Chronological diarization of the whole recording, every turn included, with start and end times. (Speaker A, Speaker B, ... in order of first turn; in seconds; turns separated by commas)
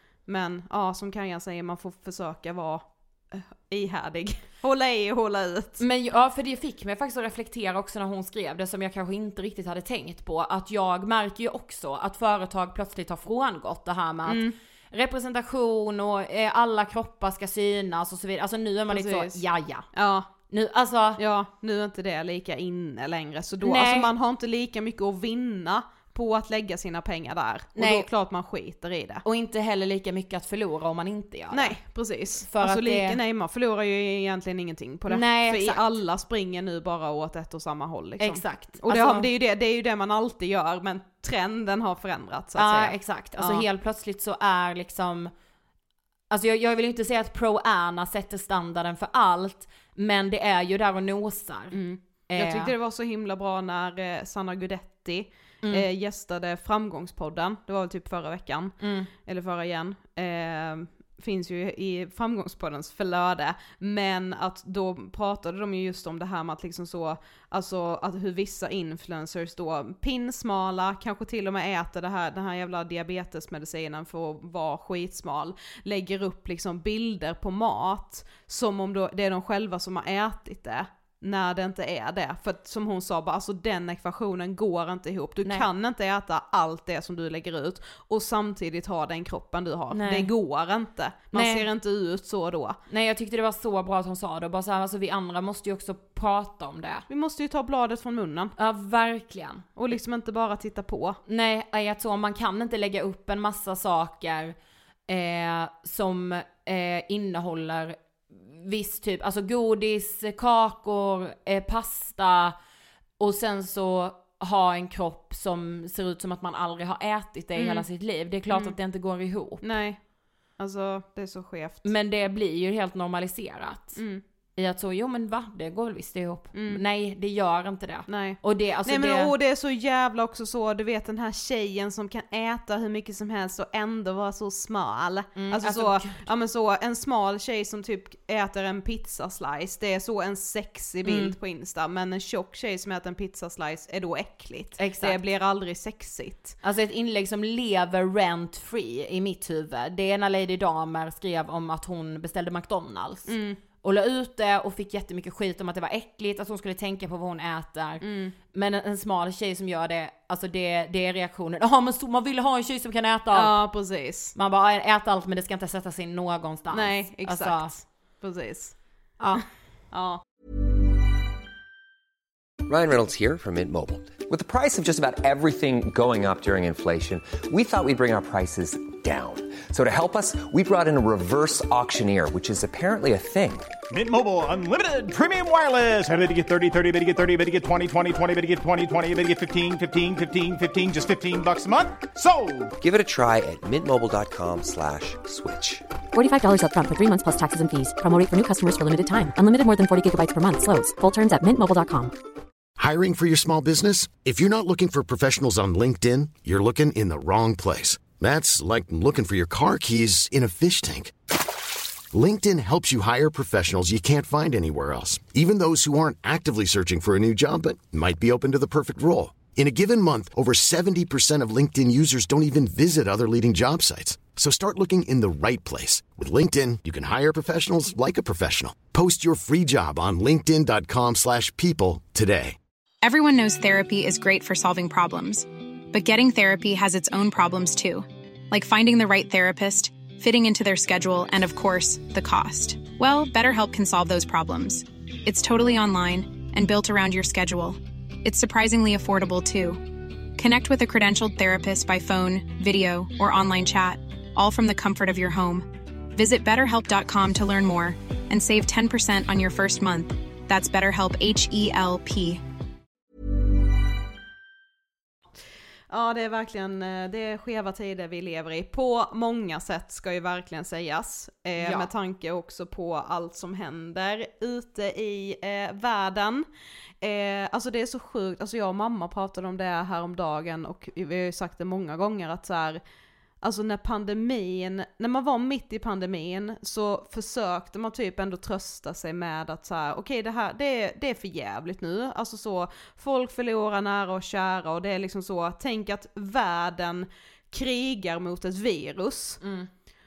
Speaker A: 0.3-5.8, Speaker B: 5.8-19.9, Speaker A: 14.3-14.6, Speaker A: 18.9-20.3, Speaker B: 20.5-21.2, Speaker A: 21.2-29.2, Speaker B: 23.6-24.1, Speaker B: 27.8-28.1, Speaker B: 29.2-31.8, Speaker A: 31.5-43.6, Speaker B: 32.4-33.2, Speaker B: 35.1-35.9, Speaker B: 38.2-39.3, Speaker B: 42.6-45.3, Speaker B: 46.3-52.7, Speaker A: 51.7-92.8, Speaker B: 58.8-59.1, Speaker B: 89.9-90.3, Speaker B: 91.3-91.7, Speaker B: 92.9-97.1, Speaker A: 97.1-98.5, Speaker B: 98.6-99.7, Speaker A: 99.8-101.2, Speaker B: 101.3-104.5, Speaker B: 105.1-112.6, Speaker B: 113.2-119.6, Speaker A: 117.6-117.9, Speaker A: 119.6-120.0, Speaker A: 120.6-121.9, Speaker B: 121.8-124.0, Speaker A: 124.0-124.2, Speaker B: 124.6-129.3, Speaker A: 126.5-126.8, Speaker A: 128.1-146.6, Speaker B: 135.3-136.2, Speaker B: 141.1-141.3, Speaker B: 144.8-145.2, Speaker B: 146.6-163.6, Speaker A: 153.3-153.6, Speaker A: 158.0-158.3, Speaker A: 163.3-164.3, Speaker B: 164.3-167.7, Speaker A: 166.7-168.8, Speaker B: 169.2-169.4, Speaker A: 169.9-170.2, Speaker C: 172.7-183.7, Speaker D: 183.9-192.7, Speaker C: 192.8-195.8, Speaker E: 196.1-202.1, Speaker F: 202.8-211.1, Speaker F: 212.1-232.6, Speaker G: 233.0-262.4, Speaker A: 265.9-276.5, Speaker B: 271.6-271.9, Speaker A: 277.0-282.8, Speaker A: 283.4-299.4, Speaker B: 299.4-299.7